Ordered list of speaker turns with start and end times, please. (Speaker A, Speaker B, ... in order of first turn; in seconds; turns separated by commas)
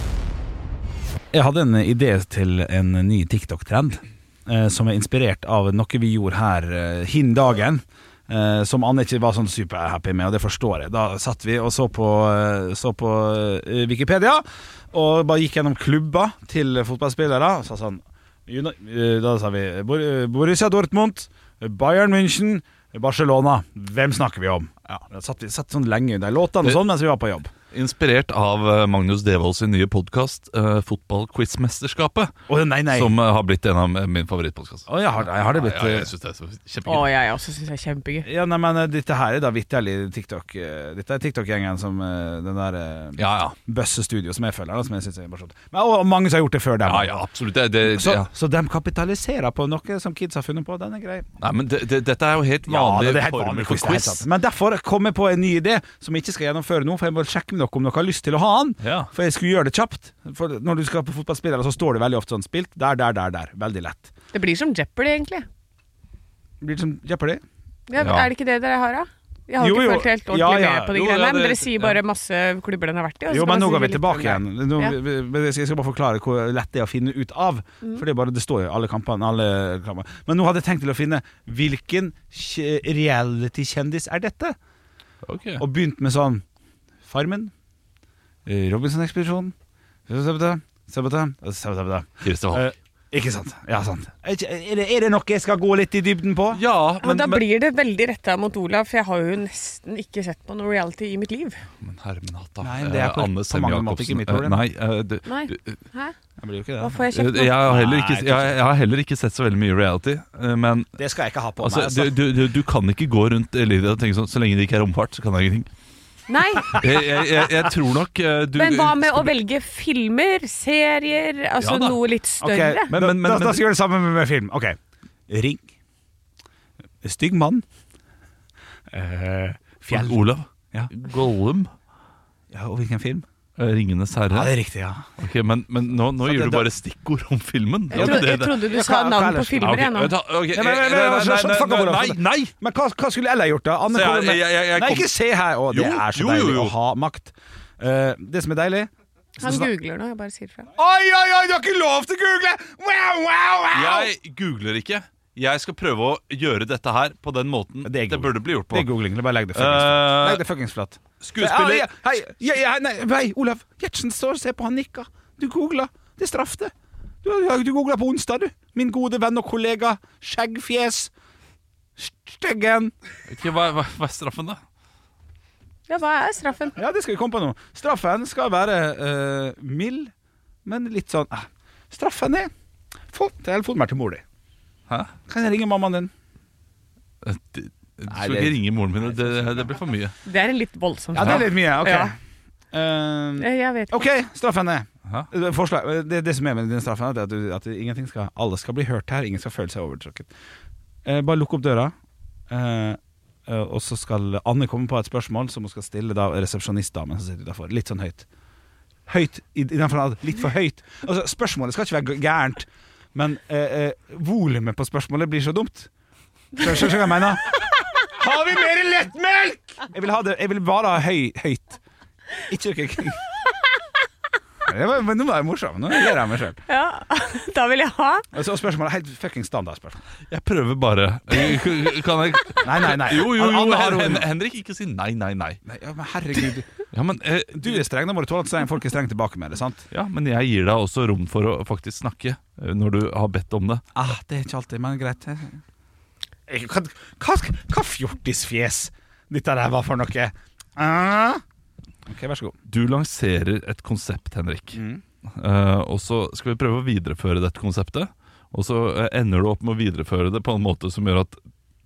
Speaker A: 1.3-27.5, Speaker B: 27.7-32.3, Speaker A: 32.5-33.1, Speaker B: 32.9-37.1, Speaker A: 34.9-36.1, Speaker C: 36.9-38.3, Speaker A: 38.2-47.2, Speaker B: 43.2-43.6, Speaker B: 46.8-48.3, Speaker A: 47.8-51.3, Speaker B: 51.4-54.2, Speaker A: 52.7-64.1, Speaker B: 58.8-59.1, Speaker C: 64.3-65.5, Speaker A: 66.6-67.4, Speaker C: 67.9-75.0, Speaker B: 68.0-68.3, Speaker A: 69.6-71.0, Speaker B: 70.9-72.0, Speaker A: 73.3-84.6, Speaker B: 85.3-85.6, Speaker A: 85.6-86.4, Speaker A: 87.1-87.5, Speaker A: 88.5-89.5, Speaker A: 90.1-96.6, Speaker B: 92.2-92.7, Speaker B: 96.5-97.5, Speaker C: 97.0-101.6, Speaker B: 101.8-105.8, Speaker A: 102.6-104.6, Speaker C: 105.3-106.2, Speaker A: 106.4-107.0, Speaker C: 106.8-107.7, Speaker B: 107.1-110.9, Speaker A: 107.6-108.6, Speaker A: 111.0-112.2, Speaker B: 111.6-115.7, Speaker C: 116.3-116.9, Speaker B: 116.7-119.3, Speaker C: 118.5-122.9, Speaker B: 121.6-122.0, Speaker A: 122.4-125.7, Speaker B: 122.9-123.6, Speaker A: 127.0-127.7, Speaker A: 128.9-130.9, Speaker B: 129.9-131.7, Speaker A: 132.5-133.3, Speaker B: 133.6-134.5, Speaker A: 134.3-135.1, Speaker B: 135.2-138.6, Speaker A: 136.2-136.7, Speaker C: 137.9-140.1, Speaker A: 137.9-139.9, Speaker B: 139.6-142.5, Speaker A: 140.5-149.7, Speaker B: 143.9-145.1, Speaker B: 145.7-146.8, Speaker C: 149.4-150.7, Speaker A: 150.8-154.1, Speaker B: 153.7-158.9, Speaker A: 157.8-171.1, Speaker B: 159.5-160.4, Speaker B: 161.2-161.9, Speaker A: 172.0-172.9, Speaker B: 173.3-174.6, Speaker C: 175.9-176.8, Speaker A: 176.8-180.1, Speaker A: 180.7-182.5, Speaker A: 183.1-184.2, Speaker A: 185.3-186.1, Speaker B: 187.2-190.2, Speaker A: 188.1-189.7, Speaker C: 190.2-192.1, Speaker A: 191.1-192.2, Speaker B: 191.2-191.4, Speaker A: 192.7-200.3, Speaker C: 193.4-194.0, Speaker A: 201.1-201.9, Speaker A: 202.5-208.3, Speaker A: 209.1-215.9, Speaker A: 216.5-221.8, Speaker A: 222.5-223.2, Speaker A: 224.7-226.6, Speaker C: 226.7-228.3, Speaker A: 228.3-230.0, Speaker B: 230.3-235.6, Speaker A: 232.6-234.3, Speaker A: 235.7-236.7, Speaker B: 236.9-237.9, Speaker A: 237.5-239.9, Speaker B: 239.9-243.8, Speaker A: 243.9-245.6, Speaker A: 246.5-251.4, Speaker A: 252.1-252.6, Speaker B: 252.7-254.8, Speaker A: 254.7-255.0, Speaker B: 255.3-261.4